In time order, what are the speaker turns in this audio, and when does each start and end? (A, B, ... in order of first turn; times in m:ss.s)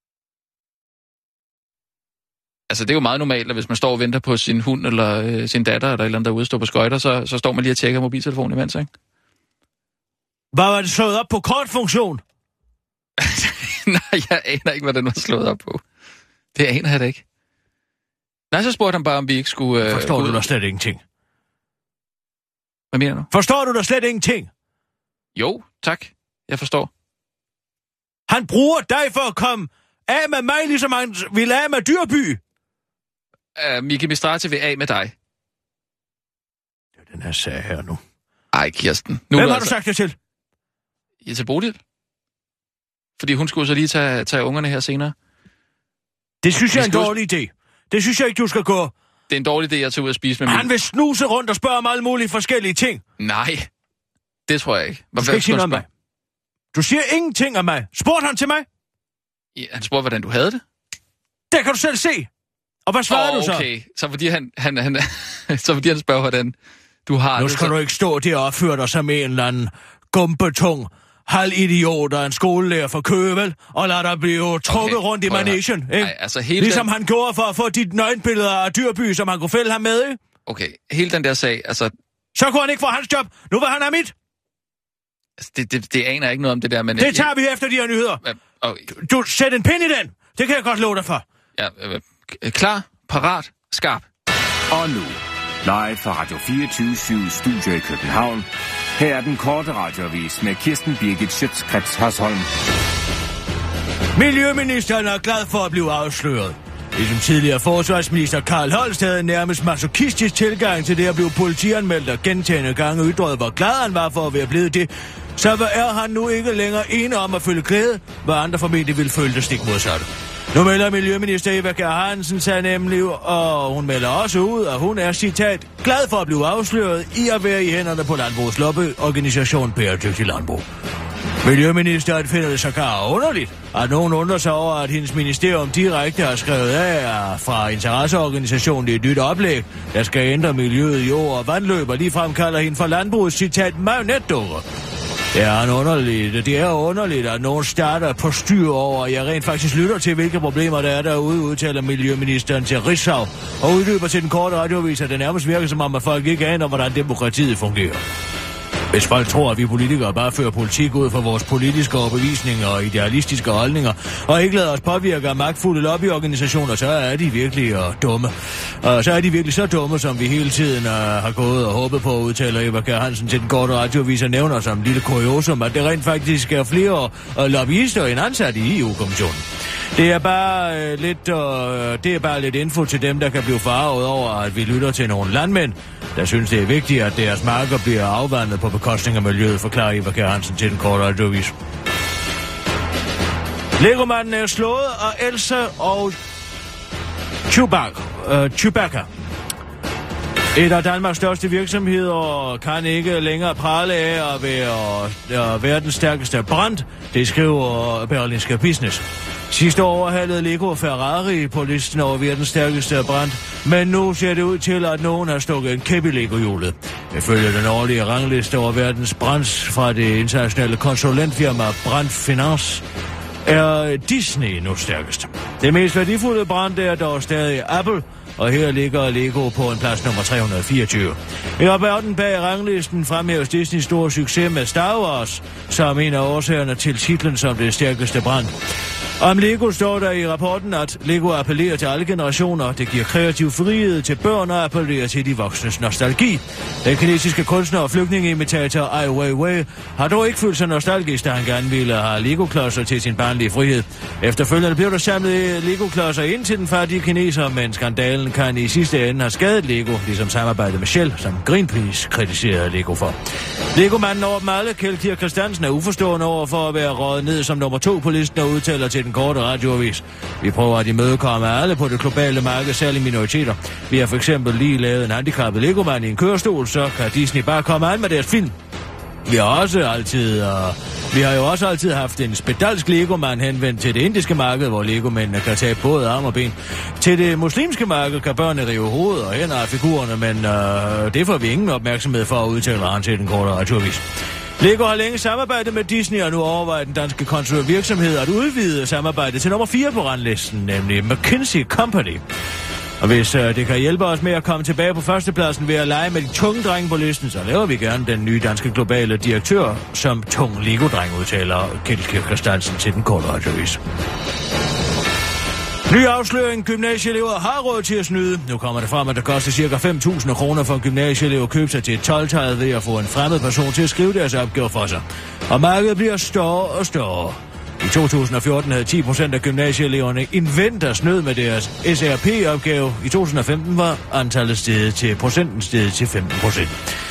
0:02.7-0:08.9 A
0:10.5-0:12.2 B
0:13.2-0:15.8 A
0:16.6-0:17.2 A
0:18.5-0:20.4 A
0:19.8-0:21.0 B
0:22.9-0:23.3 A
0:23.3-0:24.5 B
0:25.4-0:26.9 A
0:28.3-0:32.4 B
0:33.6-0:35.1 A
0:37.0-0:38.0 B
0:38.5-0:39.7 A
0:39.3-0:40.2 B
0:41.2-0:41.8 A
0:43.2-0:45.1 A
0:46.4-0:48.9 B
0:46.7-0:47.2 A
0:49.3-0:50.7 A
0:50.5-0:53.0 B
0:53.2-0:53.7 A
0:54.5-0:55.8 A
0:55.2-0:55.9 B
0:56.7-0:58.7 B
0:59.6-1:00.6 A
1:01.5-1:02.3 B
1:02.9-1:03.7 B
1:03.1-1:06.5 A
1:07.1-1:07.7 A
1:07.4-1:20.2 B
1:14.7-1:16.9 A
1:20.5-1:21.9 A
1:22.4-1:24.1 B
1:25.4-1:27.3 A
1:27.0-1:28.2 B
1:28.2-1:28.9 A
1:28.9-1:31.2 B
1:31.6-1:34.1 A
1:34.7-1:42.5 C
1:44.2-2:10.6 B
2:11.4-2:24.6 B
2:25.3-2:38.0 B
2:38.9-2:59.4 B
3:00.0-3:11.6 B
3:13.8-3:16.2 B
3:17.5-3:19.1 B
3:20.6-3:42.8 B
3:43.4-3:58.5 B
3:59.2-4:23.2 B
4:23.7-4:38.6 B
4:39.3-4:54.0 B
4:54.6-5:02.2 B
5:03.0-5:13.8 B
5:15.9-5:36.8 B